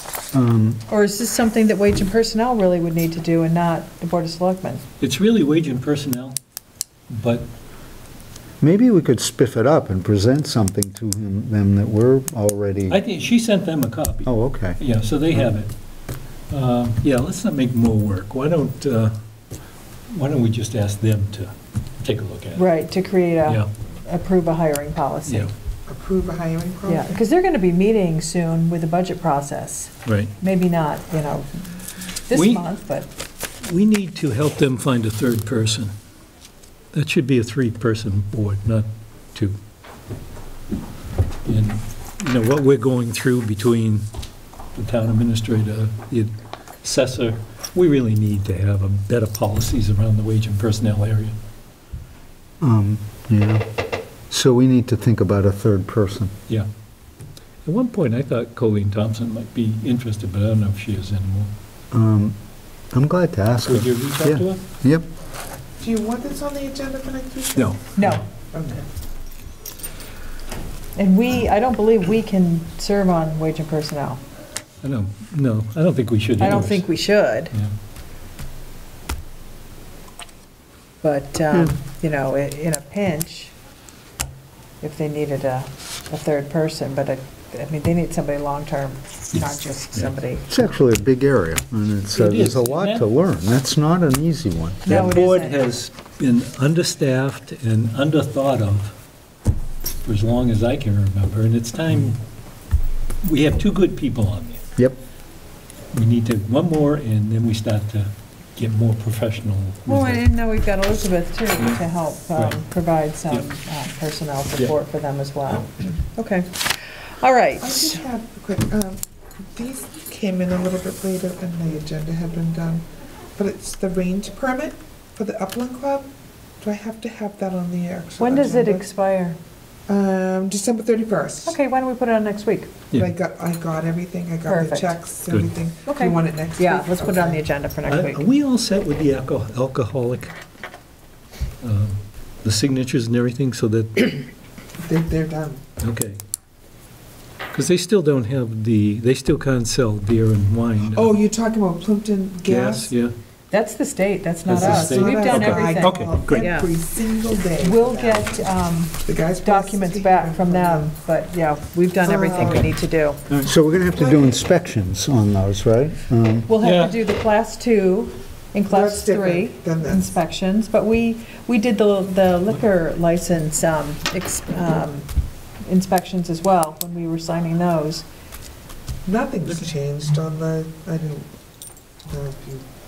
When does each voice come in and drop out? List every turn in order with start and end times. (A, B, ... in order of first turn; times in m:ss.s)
0:00.3-0:00.8 A
0:00.9-0:04.8 B
0:05.0-0:06.4 C
0:07.1-0:07.5 C
0:08.6-0:13.0 A
0:12.9-0:15.7 C
0:14.3-0:14.8 A
0:16.5-0:19.1 C
0:20.1-0:22.7 C
0:22.6-0:25.5 B
0:25.9-0:27.2 D
0:26.9-0:31.7 B
0:30.0-0:30.3 C
0:32.3-0:33.1 B
0:32.3-0:32.7 C
0:33.6-0:35.9 C
0:36.9-0:39.6 C
0:41.5-0:44.0 C
0:44.8-0:51.4 C
0:52.6-0:53.6 A
0:54.3-0:56.3 A
0:57.6-1:01.5 C
1:01.9-1:02.4 A
1:02.9-1:05.1 A
1:03.7-1:04.6 C
1:05.8-1:08.8 D
1:07.6-1:08.2 C
1:08.0-1:08.2 B
1:11.0-1:14.2 B
1:14.8-1:16.9 C
1:16.4-1:17.5 B
1:21.0-1:23.5 B
1:24.8-1:30.5 B
1:30.5-1:34.9 A
1:32.1-1:33.1 C
1:34.8-1:35.6 B
1:34.9-1:38.9 C
1:40.0-1:42.2 C
1:43.2-1:44.6 C
1:45.9-1:50.2 C
1:49.9-1:58.0 B
1:51.6-1:51.8 C
1:52.4-1:52.6 C
1:57.6-1:59.0 D
1:59.5-2:02.8 D
2:03.4-2:06.1 D
2:06.6-2:08.8 D
2:08.2-2:09.4 B
2:09.9-2:11.6 D
2:11.5-2:12.7 B
2:12.9-2:17.4 D
2:14.5-2:14.9 B
2:15.9-2:18.2 B
2:17.8-2:20.3 C
2:21.6-2:24.2 C
2:24.8-2:25.6 D
2:25.8-2:26.2 C
2:27.5-2:31.1 C
2:30.9-2:32.9 D
2:32.5-2:33.1 C
2:33.5-2:36.7 B
2:34.5-2:36.5 C
2:34.6-2:38.4 D
2:37.6-2:43.2 B
2:39.0-2:40.9 D
2:42.0-2:42.7 D
2:42.4-2:42.8 C
2:43.4-2:46.5 A
2:43.9-2:44.3 D
2:46.5-2:55.1 B
2:46.6-2:47.0 C
2:48.7-2:50.1 D
2:55.6-2:58.0 B
2:59.0-3:01.3 D
3:02.1-3:02.6 D